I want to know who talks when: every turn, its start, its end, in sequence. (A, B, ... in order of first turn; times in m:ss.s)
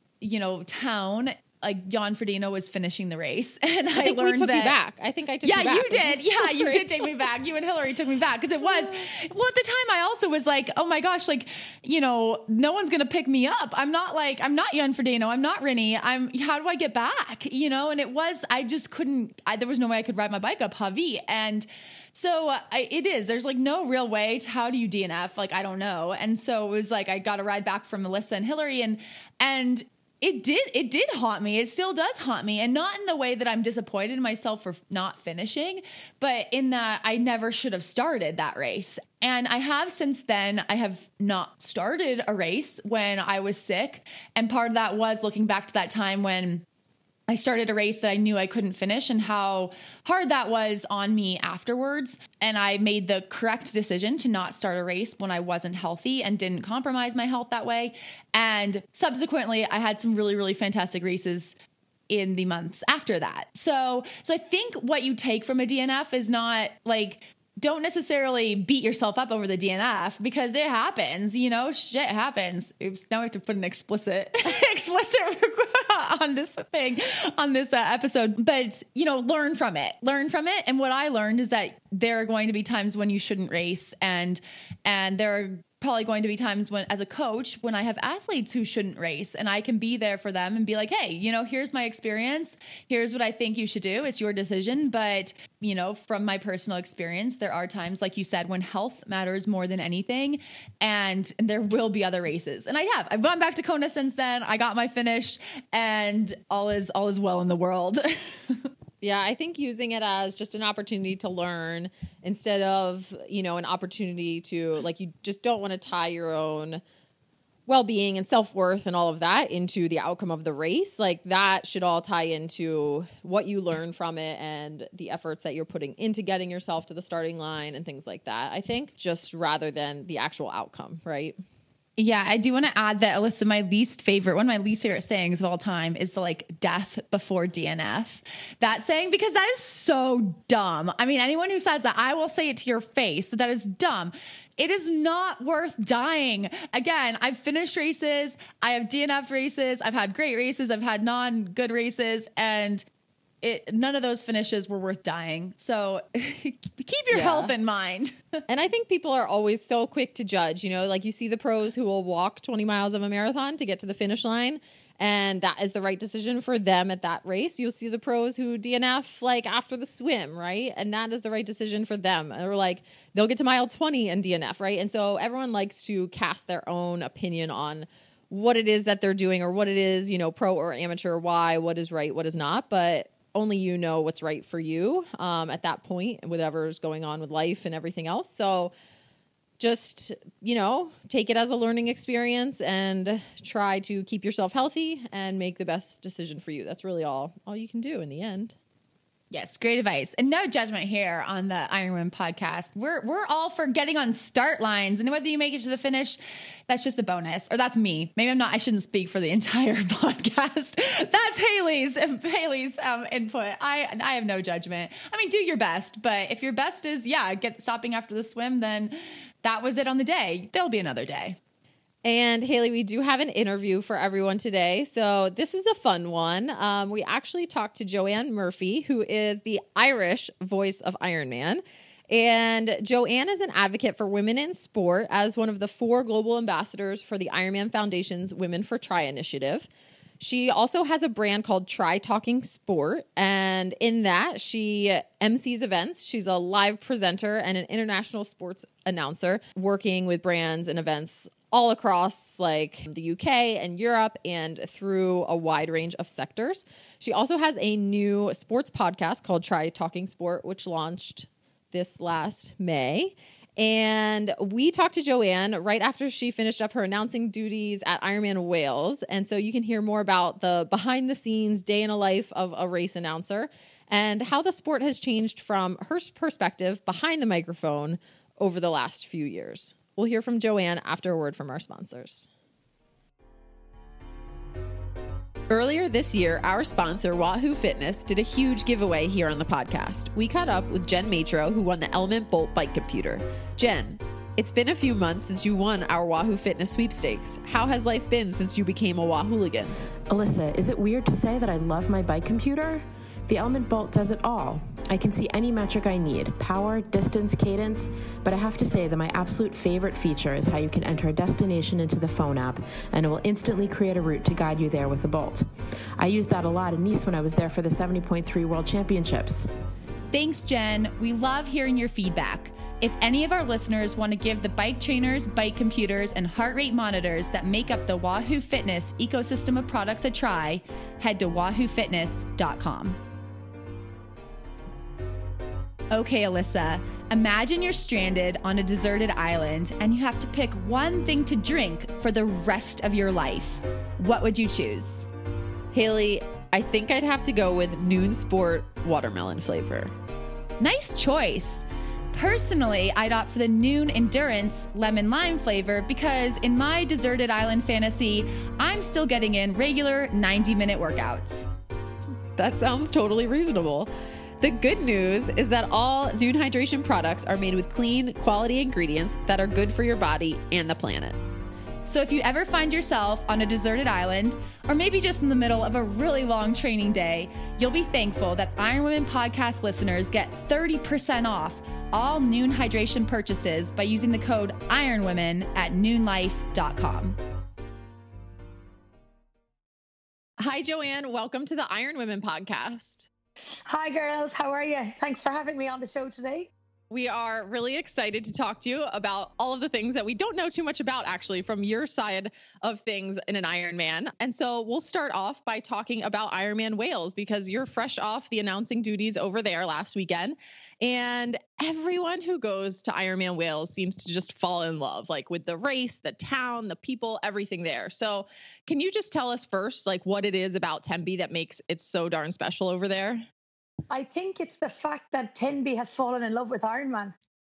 0:00.2-0:04.8 A
0:03.9-0:07.2 B
0:05.4-0:46.6 A
0:08.6-0:09.0 B
0:47.3-1:01.5 A
1:02.1-1:48.7 A
1:49.0-1:56.8 B
1:57.7-2:11.4 B
2:12.0-2:32.8 A
2:33.4-2:38.2 A
2:37.1-2:37.5 B
2:38.5-3:08.7 B
3:09.6-3:18.6 B
3:19.3-3:41.4 A
3:42.0-3:59.7 B
4:00.2-4:42.3 B
4:45.5-4:59.8 B
5:00.1-5:15.4 C
5:16.0-5:19.5 C
5:20.1-5:33.0 A
5:35.9-5:45.1 A
5:45.7-5:49.9 B
5:50.6-6:01.5 A
6:02.4-6:11.2 B
6:11.8-6:27.2 A
6:30.4-6:33.1 B
6:33.7-6:36.5 D
6:36.9-7:03.2 B
7:03.9-7:07.1 D